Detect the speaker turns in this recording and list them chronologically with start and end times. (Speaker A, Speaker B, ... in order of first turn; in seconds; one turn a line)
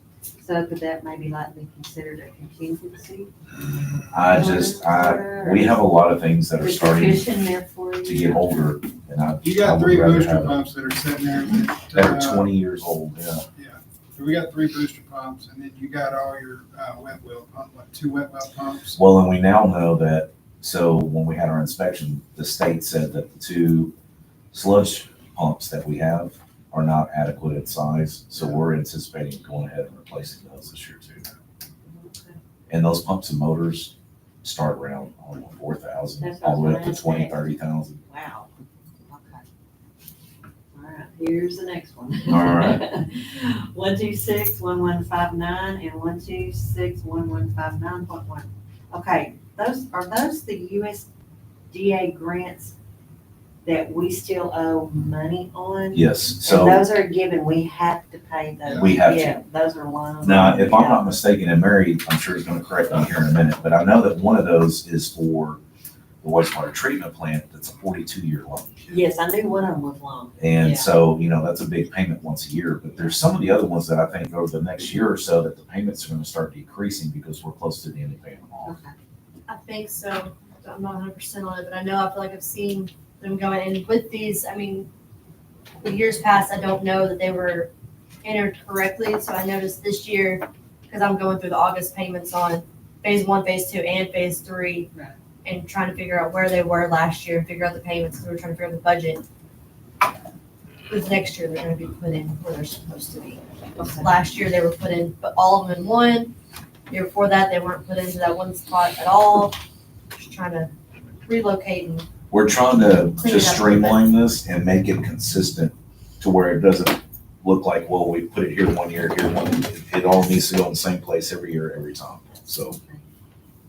Speaker A: 0.4-3.3
Speaker B: 4.1-7.3
Speaker A: 4.3-5.8
Speaker A: 6.6-8.8
Speaker B: 8.0-10.6
Speaker C: 9.4-12.5
Speaker B: 11.9-13.4
Speaker C: 13.6-19.0
Speaker B: 19.0-23.9
Speaker B: 24.5-31.2
Speaker A: 31.9-32.4
Speaker B: 32.7-38.0
Speaker A: 36.2-37.5
Speaker A: 38.1-38.5
Speaker A: 39.1-39.4
Speaker A: 40.7-51.1
Speaker B: 42.3-42.8
Speaker A: 51.7-52.8
Speaker A: 53.6-61.1
Speaker B: 55.9-56.9
Speaker B: 58.7-59.4
Speaker B: 60.2-65.6
Speaker B: 66.2-68.8
Speaker A: 68.9-70.9
Speaker B: 70.4-78.8
Speaker A: 78.6-78.9
Speaker D: 79.5-84.9
Speaker D: 85.8-87.7
Speaker D: 88.2-94.9
Speaker D: 95.5-99.2
Speaker D: 100.9-106.3
Speaker A: 103.8-104.2
Speaker D: 106.9-109.6
Speaker D: 110.1-110.7
Speaker D: 111.2-112.1
Speaker B: 112.3-122.8
Speaker D: 113.2-114.0
Speaker A: 122.6-123.0